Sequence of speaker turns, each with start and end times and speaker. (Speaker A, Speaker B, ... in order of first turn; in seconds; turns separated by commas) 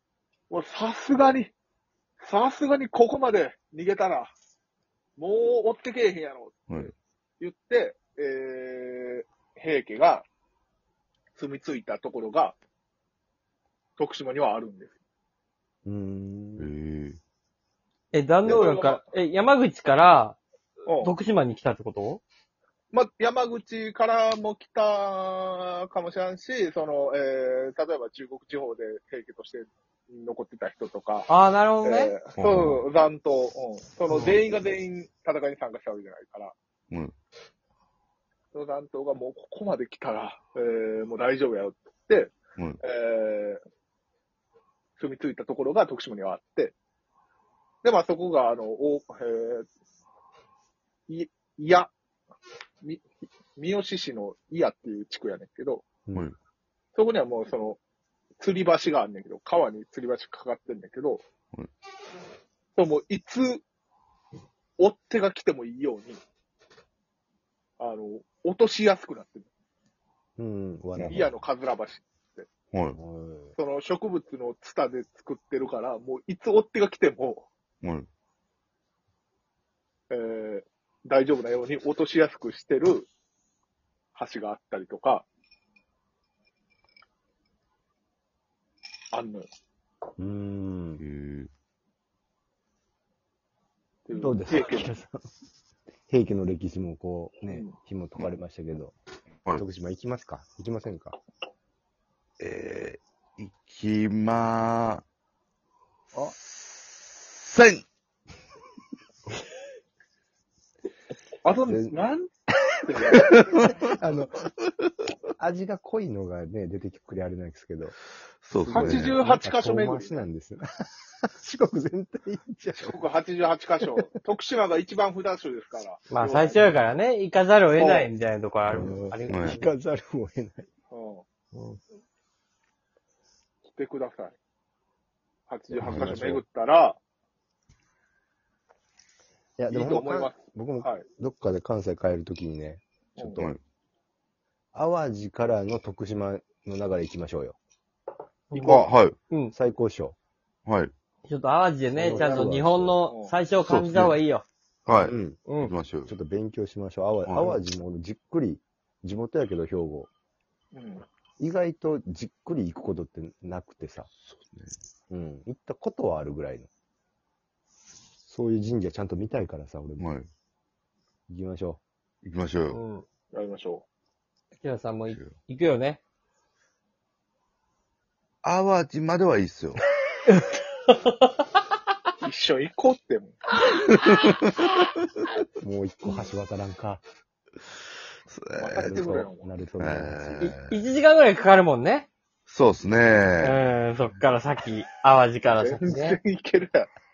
Speaker A: 0.5-1.5, Speaker A: 2.2-4.3, Speaker A: 5.2-10.3, Speaker A: 11.3-12.6, Speaker A: 14.0-14.9, Speaker B: 15.8-16.7, Speaker C: 16.6-17.2, Speaker D: 18.1-20.4, Speaker A: 18.5-19.0, Speaker A: 20.9-21.2, Speaker D: 20.9-22.2, Speaker A: 22.9-31.3, Speaker D: 31.3-32.2, Speaker A: 31.8-36.5, Speaker C: 32.4-32.8, Speaker A: 38.5-43.6, Speaker A: 45.0-46.7, Speaker A: 47.8-49.7, Speaker A: 51.1-51.9, Speaker A: 53.6-55.9, Speaker A: 57.0-57.8, Speaker A: 58.4-61.2, Speaker A: 62.8-63.6, Speaker A: 64.8-66.2, Speaker A: 67.8-69.5, Speaker B: 70.4-71.3, Speaker A: 71.0-72.5, Speaker C: 72.7-73.0, Speaker B: 73.0-73.5, Speaker A: 73.6-77.5, Speaker C: 77.8-78.1, Speaker A: 80.1-83.1, Speaker A: 84.2-85.3, Speaker A: 89.1-89.5, Speaker B: 90.2-91.0, Speaker C: 91.0-91.5, Speaker A: 94.1-94.9, Speaker B: 94.2-95.3, Speaker B: 96.1-99.0, Speaker A: 97.5-97.8, Speaker B: 99.5-101.2, Speaker C: 102.4-105.0, Speaker C: 106.2-107.8, Speaker A: 111.4-112.3, Speaker B: 111.7-112.0, Speaker A: 112.8-113.7, Speaker B: 113.1-114.5, Speaker C: 113.1-113.8, Speaker B: 115.4-118.0, Speaker C: 118.4-119.2, Speaker A: 118.7-120.2, Speaker B: 118.7-120.6, Speaker B: 121.4-123.1, Speaker A: 122.8-126.7, Speaker D: 126.1-129.7, Speaker A: 127.8-128.1, Speaker B: 128.7-130.7, Speaker C: 129.3-129.6, Speaker A: 130.9-131.3, Speaker D: 131.5-131.8, Speaker A: 133.7-134.3, Speaker A: 135.5-137.0, Speaker B: 135.7-136.4, Speaker C: 135.8-136.3, Speaker B: 139.6-143.5, Speaker A: 139.7-141.1, Speaker A: 143.2-143.4, Speaker B: 144.7-147.6, Speaker D: 148.5-149.5, Speaker C: 148.5-149.2, Speaker B: 149.5-150.2, Speaker C: 150.7-150.9, Speaker D: 151.3-154.5, Speaker B: 152.0-153.0, Speaker A: 152.0-153.3, Speaker C: 153.6-154.2, Speaker C: 154.9-156.1, Speaker B: 155.0-155.4, Speaker D: 155.5-155.7, Speaker B: 156.1-160.1, Speaker C: 157.2-157.5, Speaker A: 160.7-161.1, Speaker B: 161.4-164.1, Speaker C: 164.2-164.7, Speaker B: 165.1-166.7, Speaker B: 168.2-170.1, Speaker C: 170.0-170.3, Speaker B: 171.3-171.8, Speaker C: 172.2-172.8, Speaker D: 172.7-173.1, Speaker A: 173.3-173.8, Speaker D: 174.6-176.0, Speaker C: 175.1-175.3, Speaker C: 178.4-179.8, Speaker D: 180.3-181.3, Speaker A: 182.2-183.4, Speaker C: 183.9-184.6, Speaker B: 185.6-187.0, Speaker C: 188.3-189.2, Speaker A: 188.6-189.5, Speaker B: 188.8-190.6, Speaker C: 189.8-190.7, Speaker D: 190.4-192.1, Speaker C: 192.5-193.7, Speaker B: 192.9-193.5, Speaker D: 193.4-196.2, Speaker A: 195.6-196.9